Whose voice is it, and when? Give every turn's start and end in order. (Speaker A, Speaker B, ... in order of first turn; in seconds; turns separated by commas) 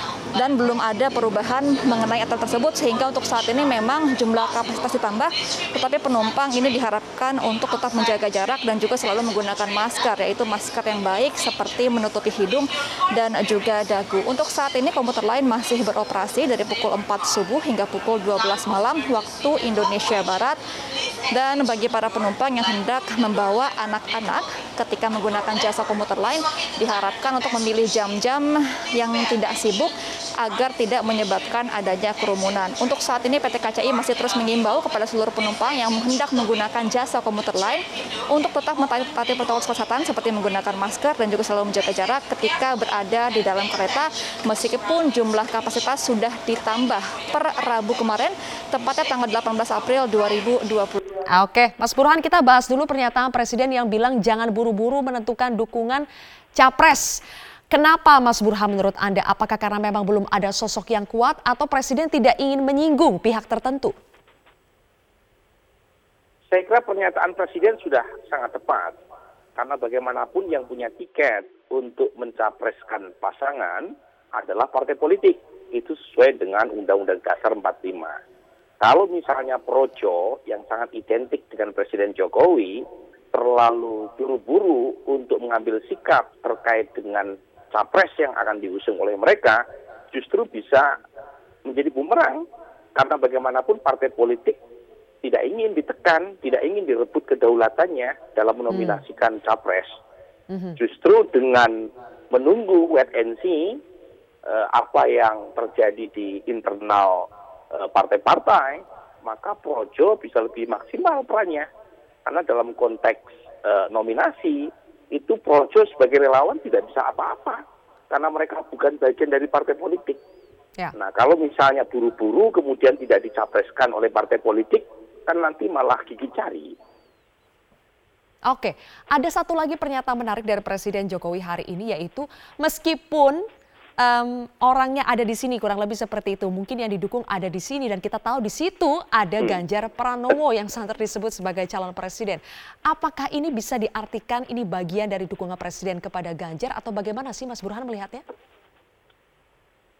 Speaker A: 0.4-20.6, Speaker A: 21.3-51.0, Speaker B: 51.3-64.0, Speaker C: 66.5-69.0, Speaker C: 69.6-78.2, Speaker C: 78.8-90.9, Speaker C: 91.7-92.4, Speaker C: 93.0-94.6, Speaker C: 95.2-100.0, Speaker B: 98.7-99.0, Speaker B: 100.5-100.8, Speaker C: 100.8-103.8, Speaker C: 104.5-111.7, Speaker C: 112.3-120.2, Speaker C: 121.0-126.8, Speaker B: 128.4-133.5, Speaker B: 134.0-148.2